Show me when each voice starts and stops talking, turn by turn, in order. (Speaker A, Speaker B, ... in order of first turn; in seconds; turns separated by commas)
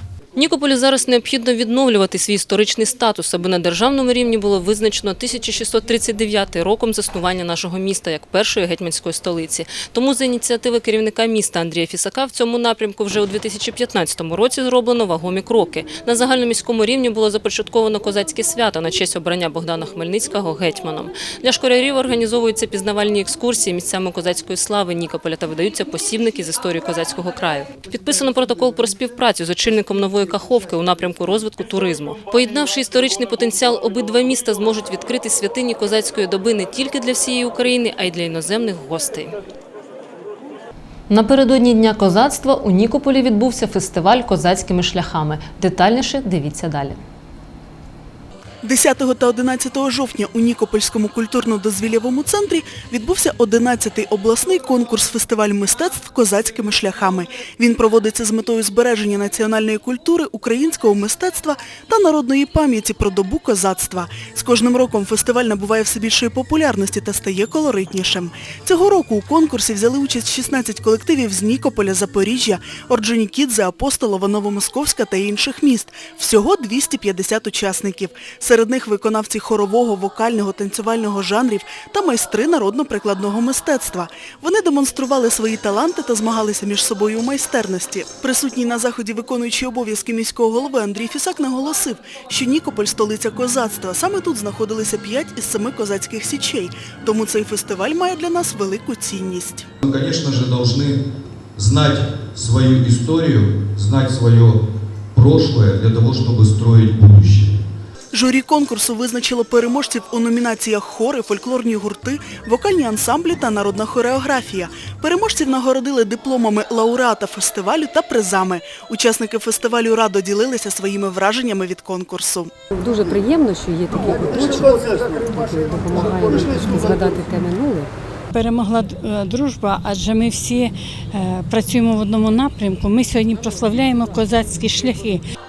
Speaker A: 0.3-39.4, Speaker A: 41.1-47.0, Speaker B: 48.6-99.7, Speaker C: 99.8-101.0, Speaker C: 101.6-104.6, Speaker C: 105.1-107.6, Speaker B: 108.1-122.5, Speaker D: 122.7-127.9, Speaker E: 128.3-135.2